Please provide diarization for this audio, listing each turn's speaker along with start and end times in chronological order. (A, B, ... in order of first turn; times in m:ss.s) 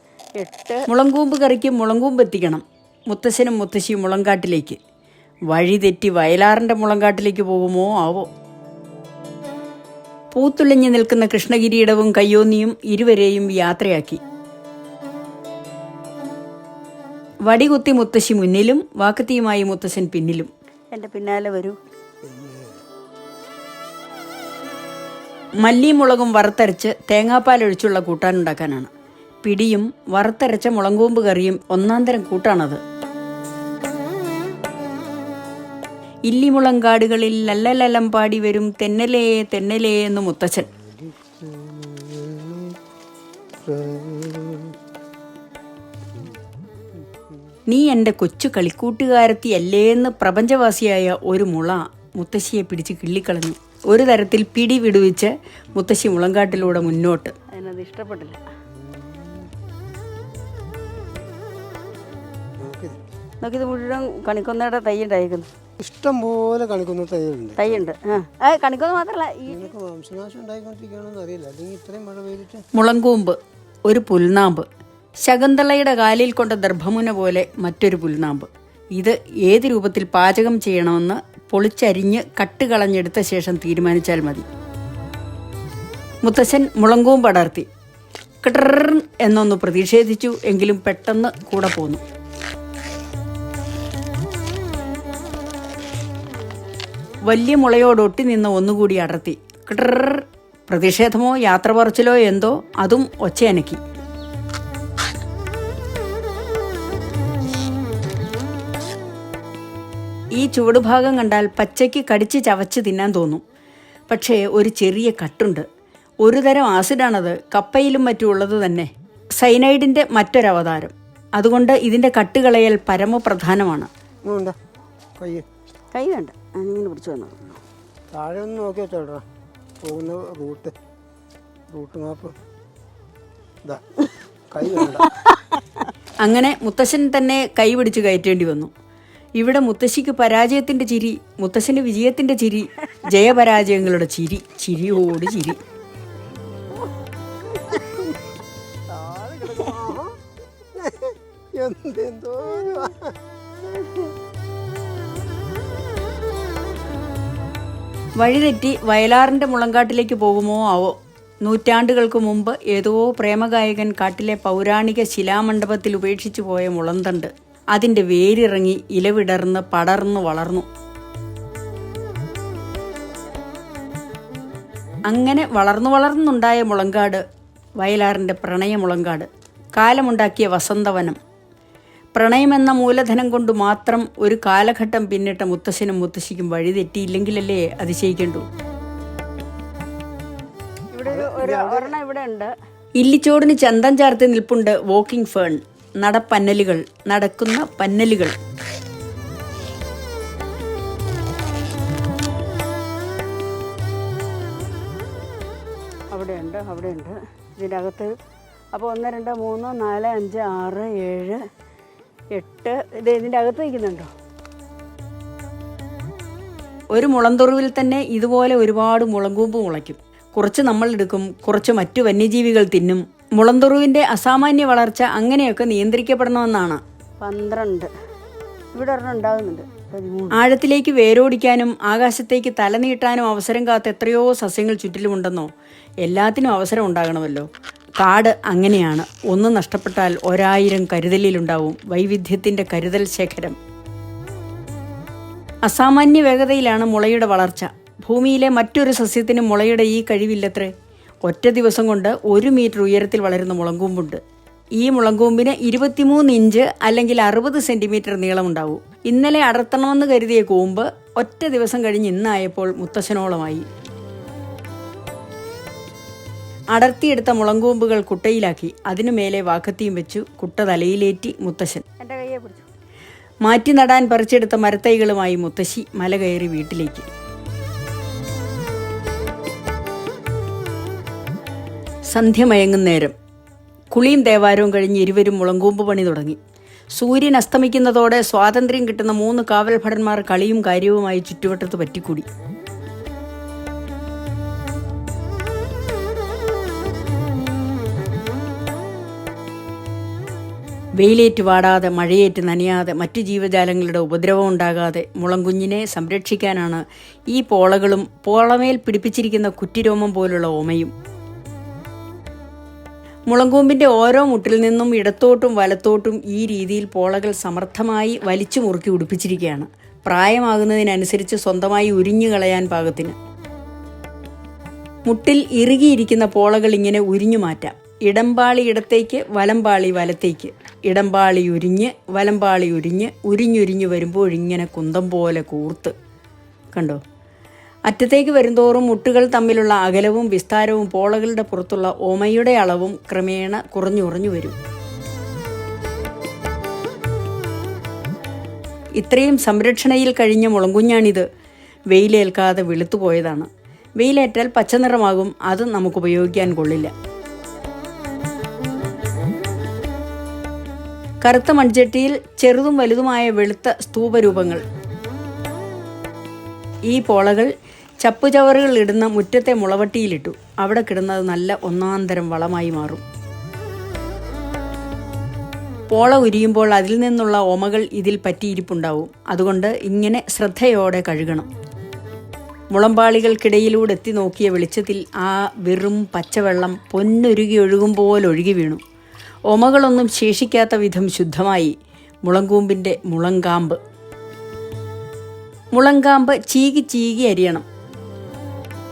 0:00.4-0:00.8 A
0:00.9-0:04.8 B
0:05.5-0:08.3 B
0:10.3-0:14.2 B
0:17.5-0:20.5 B
0:20.9-0:21.8 A
0:22.3-0:22.7 C
0:25.6-0:28.9 B
0:29.4-0:32.8 B
0:36.3-0:40.7 B
0:41.0-0:42.8 C
0:43.6-0:44.8 C
0:47.7-0:57.4 B
0:57.5-0:58.4 A
0:58.8-0:59.4 C
1:02.6-1:03.0 C
1:03.4-1:05.5 A
1:05.8-1:07.8 C
1:07.6-1:09.6 A
1:09.5-1:12.6 C
1:12.7-1:14.7 B
1:15.2-1:24.5 B
1:26.2-1:27.7 B
1:28.4-1:32.0 B
1:37.3-1:43.8 B
1:50.4-1:53.4 B
1:54.1-1:55.7 B
1:56.2-2:03.9 B
2:04.2-2:04.6 C
2:05.2-2:05.5 C
2:05.9-2:07.5 A
2:08.1-2:09.2 C
2:09.8-2:10.8 C
2:11.7-2:12.4 C
2:13.6-2:15.1 C
2:16.2-2:18.7 B
2:19.4-2:25.6 B
2:28.9-2:30.2 C
2:30.8-2:33.2 C
2:38.2-2:50.7 B
2:55.1-2:57.2 B
2:57.8-3:01.2 B
3:02.2-3:08.5 B
3:10.9-3:12.5 A
3:11.1-3:11.9 C
3:13.0-3:18.4 B
3:26.1-3:28.1 A
3:28.7-3:31.4 A
3:32.4-3:34.1 A
3:36.9-3:46.8 B
3:47.2-3:47.9 A
3:48.7-3:50.4 A
3:50.3-3:55.5 B
3:56.0-4:03.6 B
4:05.7-4:10.7 B
4:11.3-4:14.2 B
4:14.8-4:23.7 B
4:26.7-4:32.0 B
4:32.0-4:32.7 A
4:33.4-4:37.1 B
4:42.1-4:43.2 B
4:43.9-4:46.4 B
4:47.0-4:52.3 B
5:01.0-5:10.9 B
5:13.3-5:23.2 B
5:25.1-5:35.9 B
5:36.7-5:37.0 B
5:37.9-5:44.6 B
5:49.0-5:51.3 B
5:51.9-5:53.5 B
5:54.0-5:56.9 B
6:01.2-6:04.6 B
6:06.9-6:13.0 B
6:15.9-6:21.5 B
6:22.7-6:28.8 B
6:29.5-6:33.8 B
6:35.8-6:37.7 B